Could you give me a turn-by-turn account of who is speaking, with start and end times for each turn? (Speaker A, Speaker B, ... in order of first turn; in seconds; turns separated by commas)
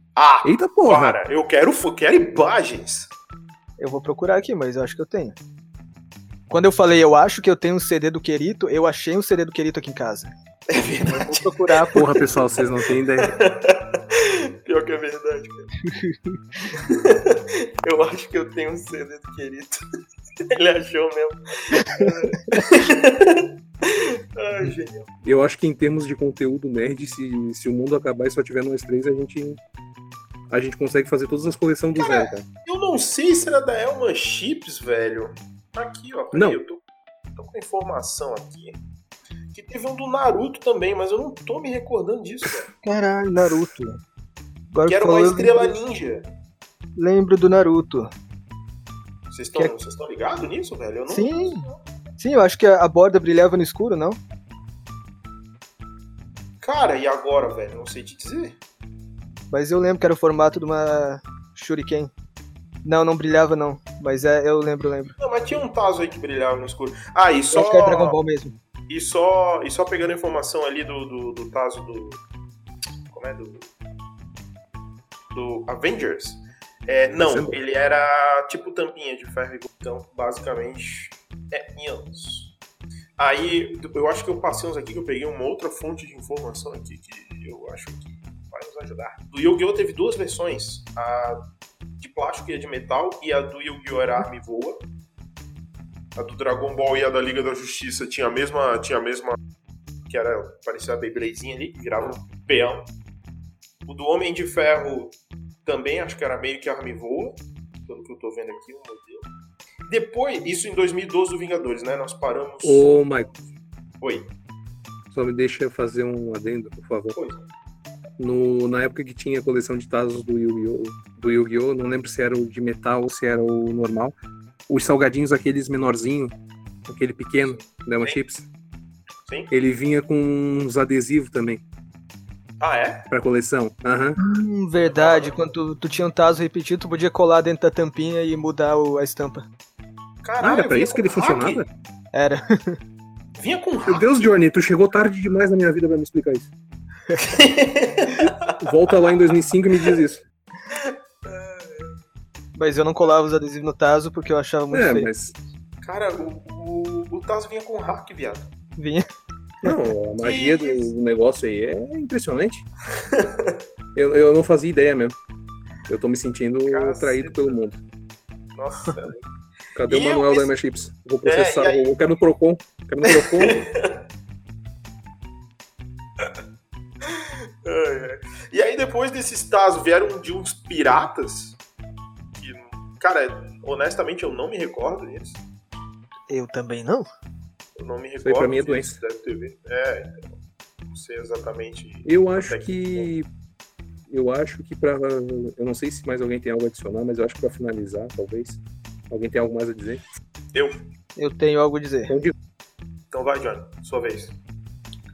Speaker A: 0.2-3.1, Speaker B: 0.4-1.2, Speaker C: 3.8-5.4, Speaker C: 6.5-10.3, Speaker A: 10.7-12.1, Speaker C: 11.1-12.3, Speaker B: 11.9-13.4, Speaker A: 13.2-15.7, Speaker C: 15.8-16.8, Speaker A: 16.8-19.8, Speaker A: 20.4-25.1, Speaker C: 21.8-22.6, Speaker B: 25.2-29.6, Speaker B: 30.5-32.5, Speaker A: 32.0-36.8, Speaker B: 36.3-36.6, Speaker A: 37.4-38.8, Speaker A: 39.5-42.7, Speaker C: 42.8-44.0, Speaker C: 44.7-45.8, Speaker A: 44.9-46.3, Speaker C: 47.0-48.1, Speaker A: 49.3-51.8, Speaker C: 51.1-51.7, Speaker C: 52.2-54.2, Speaker A: 56.6-58.6, Speaker C: 59.5-62.1, Speaker C: 62.8-65.2, Speaker A: 65.2-68.2, Speaker C: 67.5-68.5, Speaker A: 68.9-72.2, Speaker A: 73.1-73.7, Speaker A: 75.3-82.5, Speaker B: 77.2-77.6, Speaker A: 83.2-91.4, Speaker A: 92.0-94.8, Speaker A: 96.2-99.4, Speaker A: 100.1-102.9, Speaker A: 103.9-109.3, Speaker A: 109.9-114.3, Speaker B: 112.6-113.3, Speaker B: 115.1-117.2, Speaker A: 117.1-117.4, Speaker B: 118.2-124.2, Speaker B: 124.7-126.3, Speaker B: 126.9-128.5, Speaker A: 127.4-128.2, Speaker A: 129.3-129.5, Speaker B: 129.5-131.6, Speaker A: 132.6-133.1, Speaker B: 133.1-134.2, Speaker C: 134.2-139.4, Speaker A: 134.8-135.4, Speaker A: 140.2-141.7, Speaker B: 140.4-141.7, Speaker C: 142.1-142.8, Speaker A: 143.4-144.3, Speaker B: 143.9-146.5, Speaker C: 147.1-147.4, Speaker A: 147.3-149.2, Speaker B: 148.5-150.2, Speaker A: 150.7-151.9, Speaker C: 152.6-155.1, Speaker B: 154.7-155.3, Speaker A: 155.8-158.5, Speaker C: 158.8-159.1, Speaker B: 159.6-162.7, Speaker A: 160.2-160.9, Speaker A: 163.0-163.6, Speaker B: 163.9-165.2, Speaker B: 165.9-167.8, Speaker A: 166.7-167.6, Speaker A: 168.6-169.2, Speaker B: 169.8-173.7, Speaker A: 169.9-170.5, Speaker A: 171.2-171.9, Speaker A: 173.1-174.0, Speaker A: 177.0-181.6, Speaker A: 182.3-185.4, Speaker C: 186.3-187.1, Speaker A: 187.8-190.4, Speaker B: 188.2-189.0, Speaker A: 190.9-193.1, Speaker B: 192.1-193.3, Speaker B: 194.1-200.0, Speaker A: 200.5-200.8, Speaker C: 201.2-202.2, Speaker B: 202.1-202.3, Speaker A: 203.1-204.4